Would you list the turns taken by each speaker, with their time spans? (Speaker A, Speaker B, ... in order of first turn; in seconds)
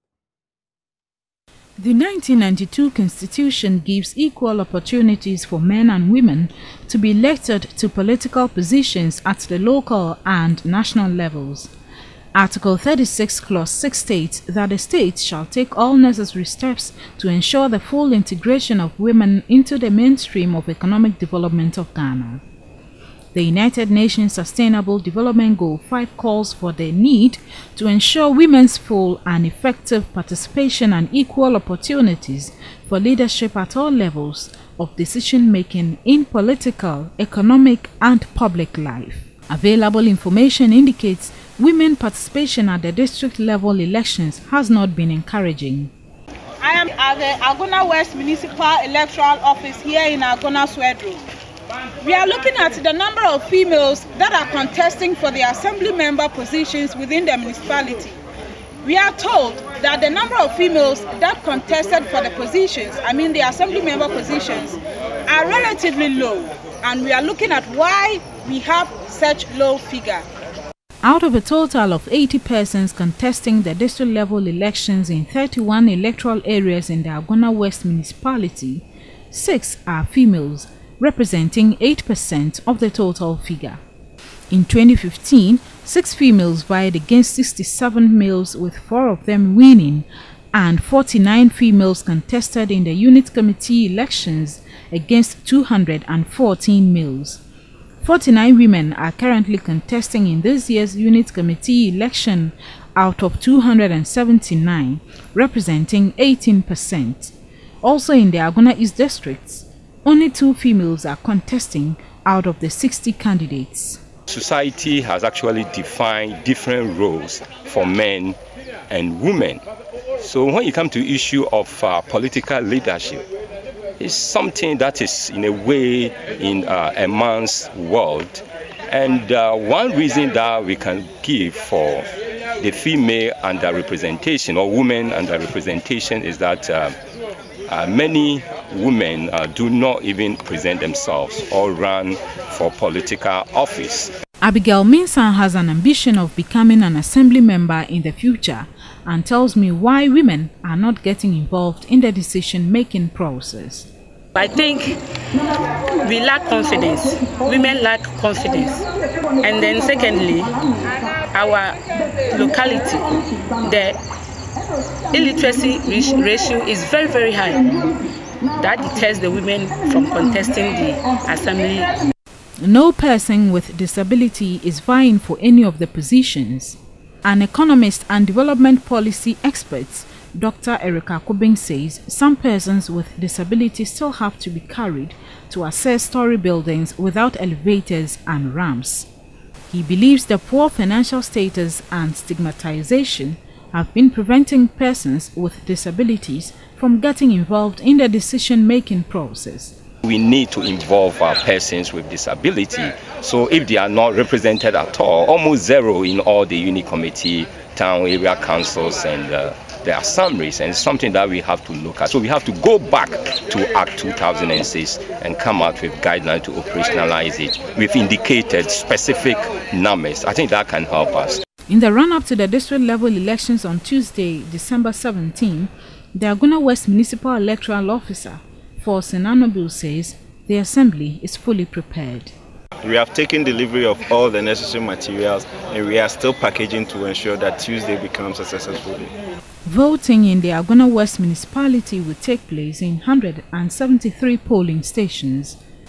Speaker A: 1.8-11.7, 12.3-22.4, 23.3-45.9, 71.0-83.8, 84.5-97.4, 98.0-114.0, 144.4-153.9, 172.6-189.1, 189.7-199.8, 221.7-232.3, 239.7-245.6
Speaker B: 46.6-51.2, 52.0-58.2, 58.8-70.2
Speaker C: 114.3-118.4, 118.9-119.6, 120.2-123.2, 124.0-132.1, 132.6-136.9, 137.7-144.1, 200.0-221.4
Speaker D: 154.3-155.0, 155.9-158.9, 159.4-160.6, 161.3-164.0, 165.1-168.0, 168.6-171.9
Speaker E: 232.8-239.1